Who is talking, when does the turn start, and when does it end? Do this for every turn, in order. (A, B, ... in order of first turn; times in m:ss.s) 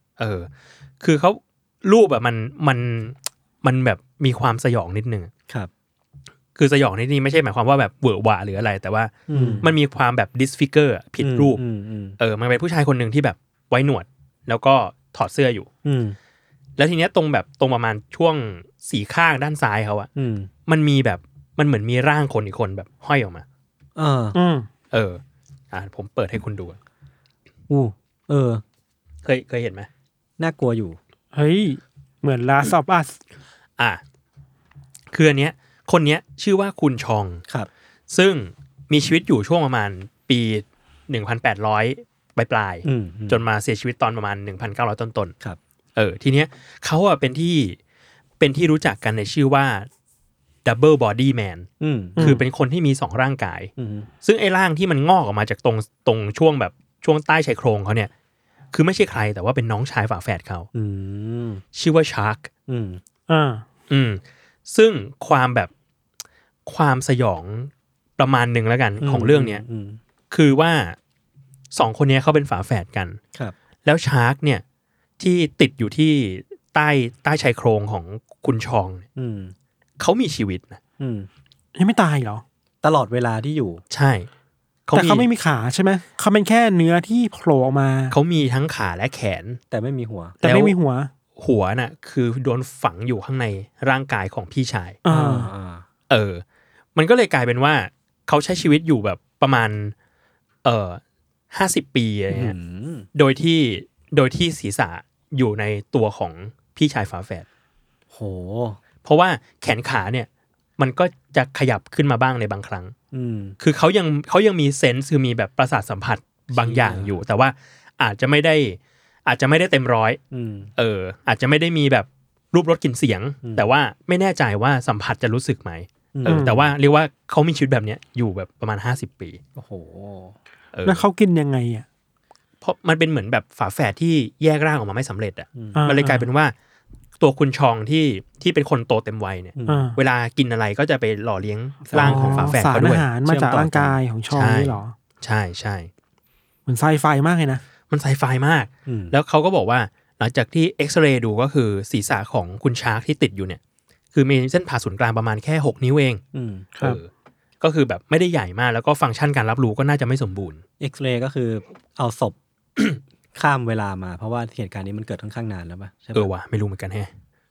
0:00.2-0:00.5 A
0:01.0-0:05.3 A
0:06.6-0:11.6 A
0:09.3-0:09.7 B
0:09.3-0:09.6 C
0:11.2-0:12.2 B
0:12.2-0:15.7 A
0:15.8-0:16.2 B
0:16.8-0:20.1 A
0:20.1-0:20.5 B
0:20.6-0:23.4 A
0:24.0-0:24.4 B
0:24.3-0:24.7 C
0:24.9-0:26.8 A
0:27.7-0:28.6 B
0:29.2-0:29.9 A
0:30.4-0:31.0 B
0:31.3-0:33.2 C
0:35.1-0:37.4 A
0:38.1-0:45.3 A
0:42.8-0:43.4 B
0:46.0-0:47.8 A
0:48.4-0:49.9 A
0:50.6-0:53.7 A
0:51.8-0:52.2 B
0:52.2-0:52.4 C
0:53.8-0:54.1 B
0:54.2-0:58.1 A
0:58.7-1:00.7 A
1:00.7-1:01.6 B
1:01.7-1:02.5 A
1:02.7-1:03.0 B
1:03.3-1:03.6 C
1:03.9-1:05.7 A
1:06.7-1:09.6 A
1:09.0-1:10.0 B
1:10.3-1:11.0 A
1:11.7-1:13.2 A
1:13.8-1:14.6 A
1:15.2-1:19.0 A
1:19.2-1:19.5 B
1:20.0-1:20.8 A
1:21.0-1:21.3 B
1:21.8-1:22.4 C
1:22.8-1:23.8 B
1:23.9-1:24.3 A
1:24.9-1:25.2 A
1:24.9-1:28.1 C
1:28.1-1:29.6 A
1:29.7-1:30.4 B
1:30.4-1:31.1 C
1:30.4-1:30.7 A
1:31.4-1:35.0 A
1:35.0-1:35.5 C
1:35.1-1:35.8 B
1:36.1-1:36.4 A
1:36.9-1:39.9 A
1:40.6-1:42.5 A
1:42.3-1:43.1 B
1:43.1-1:47.4 A
1:48.1-1:48.8 B
1:49.0-1:52.9 A
1:53.1-1:53.6 B
1:53.6-2:00.2 A
1:56.5-1:57.1 B
2:00.3-2:00.7 B
2:00.8-2:09.4 A
2:03.4-2:03.7 B
2:06.1-2:06.6 B
2:06.3-2:06.6 C
2:09.6-2:10.3 B
2:10.7-2:11.0 A
2:10.8-2:11.8 C
2:12.6-2:16.5 A
2:15.5-2:15.8 B
2:15.7-2:16.3 C
2:17.2-2:23.0 A
2:19.6-2:19.9 B
2:19.7-2:20.0 C
2:21.9-2:24.9 C
2:21.9-2:22.6 B
2:23.2-2:24.0 B
2:24.3-2:25.9 A
2:26.7-2:27.6 C
2:27.9-2:33.6 A
2:28.8-2:29.1 B
2:34.1-2:36.2 A
2:36.3-2:36.7 B
2:36.8-2:37.1 A
2:37.6-2:40.6 A
2:40.8-2:46.3 B
2:46.1-2:47.1 A